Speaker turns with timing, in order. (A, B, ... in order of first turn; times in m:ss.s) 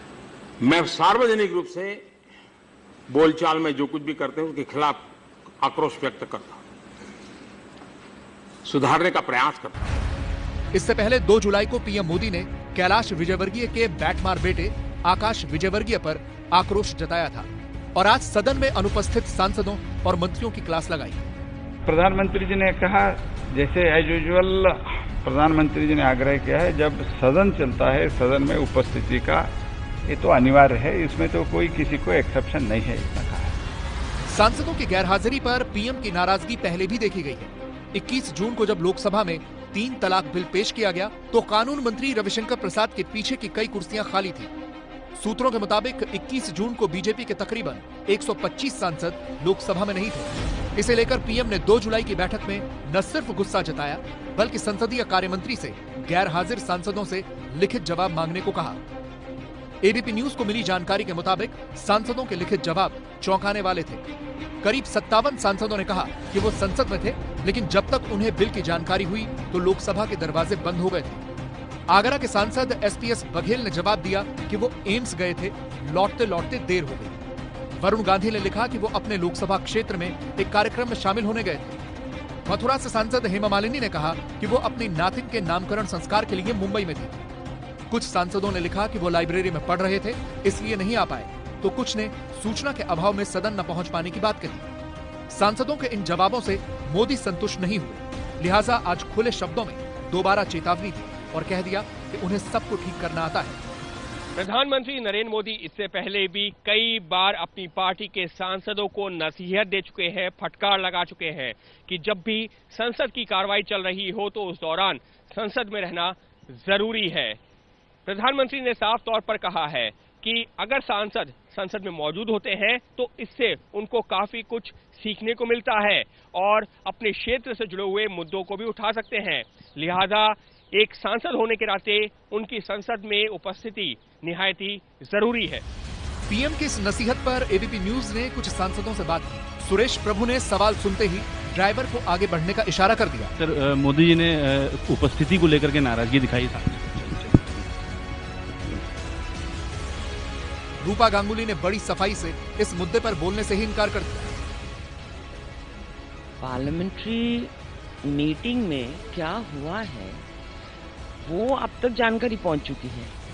0:00.7-0:01.9 A
0:03.2-0:05.0 A
0:05.6-0:06.5 A
0:08.7-0:09.7 A
0:10.7-0:21.3 B
0:21.9-0:29.5 C
0:30.1-0:33.5 C
0:34.3-0:44.5 B
0:45.2-0:58.8 B
0:59.8-1:04.0 B
1:04.6-1:11.2 B
1:11.9-1:17.2 B
1:17.8-1:21.8 B
1:22.5-1:27.2 B
1:27.9-1:34.7 B
1:35.3-1:43.6 B
1:44.4-1:57.4 D
1:58.1-2:15.6 D
2:16.3-2:23.3 B
2:23.4-2:27.7 E
2:30.8-2:34.3 B
2:36.4-2:37.5 F
2:38.1-2:40.2 F
2:41.2-2:43.1 F